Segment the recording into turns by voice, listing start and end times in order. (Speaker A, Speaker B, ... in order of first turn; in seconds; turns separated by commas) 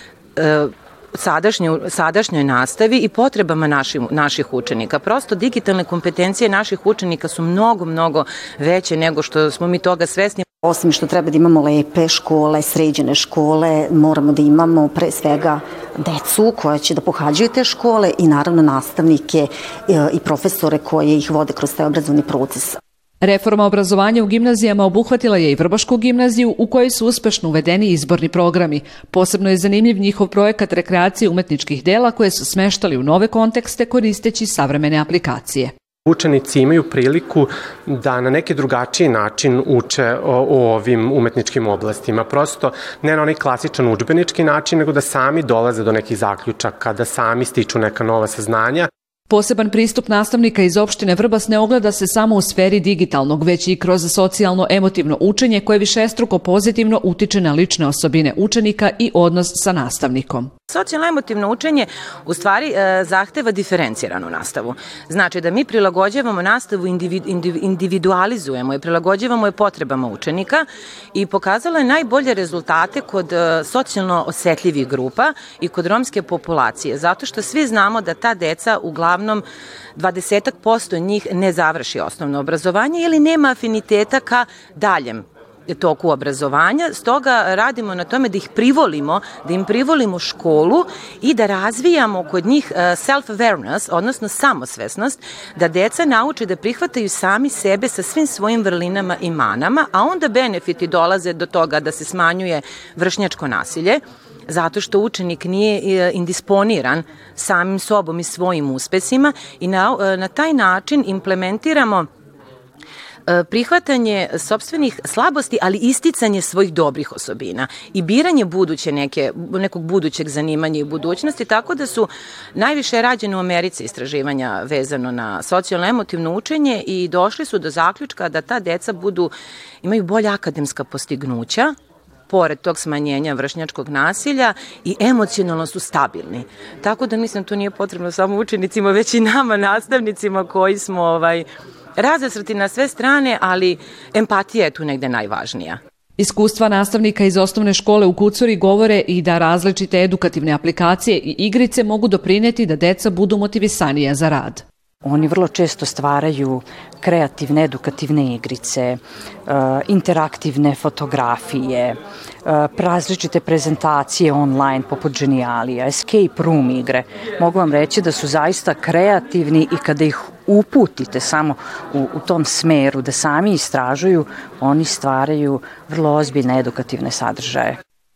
Speaker A: 0.4-10.4, Speaker B: 10.6-22.8, Speaker C: 23.2-35.7, Speaker D: 36.0-48.9, Speaker C: 49.3-60.5, Speaker A: 60.7-79.4, Speaker A: 80.0-112.1, Speaker A: 113.3-129.3, Speaker A: 129.8-131.7, Speaker A: 132.3-141.4, Speaker A: 142.0-145.8, Speaker C: 146.2-154.6, Speaker E: 155.0-177.8